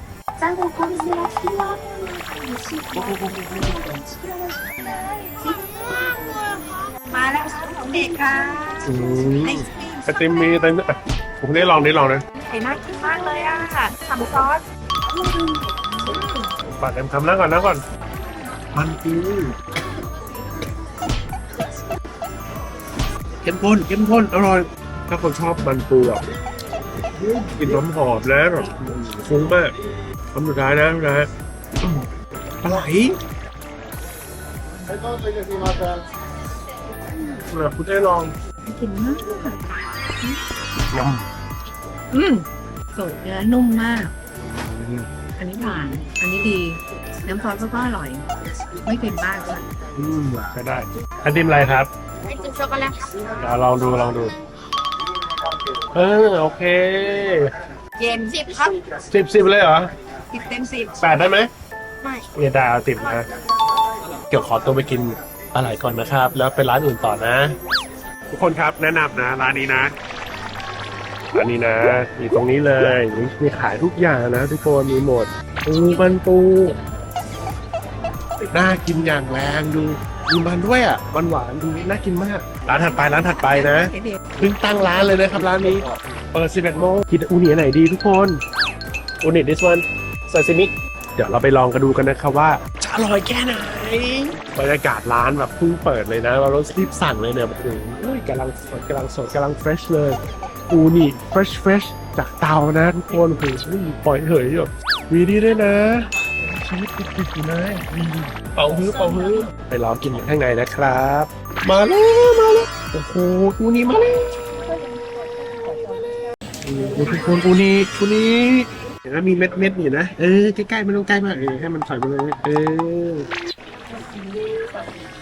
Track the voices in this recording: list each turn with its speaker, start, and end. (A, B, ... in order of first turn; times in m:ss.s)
0:00.4-0:08.9 A
0:02.9-0:03.8 B
0:08.8-0:12.2 B
0:09.4-0:10.1 A
0:12.4-0:16.5 A
0:16.7-0:17.8 B
0:18.7-0:19.5 B
0:23.4-0:26.2 B
0:27.1-0:29.7 B
0:30.3-0:31.3 B
0:31.8-0:33.2 B
0:35.2-0:35.9 B
0:37.1-0:38.3 B
0:38.6-0:39.5 A
0:40.9-0:41.3 B
0:42.1-0:44.1 A
0:44.5-0:45.1 B
0:45.4-0:48.2 A
0:48.8-0:49.6 A
0:50.0-0:51.9 B
0:52.4-0:53.0 A
0:53.4-0:54.3 B
0:55.9-0:57.5 B
0:58.0-0:58.7 A
0:59.1-0:59.9 B
1:00.3-1:01.0 A
1:01.0-1:01.5 B
1:02.3-1:03.3 B
1:04.3-1:07.5 B
1:08.3-1:09.9 B
1:11.3-1:16.8 B
1:18.5-1:28.4 B
1:23.5-1:24.2 A
1:29.2-1:40.2 B
1:40.7-1:54.4 B
1:56.6-2:03.3 B
2:04.0-2:04.7 A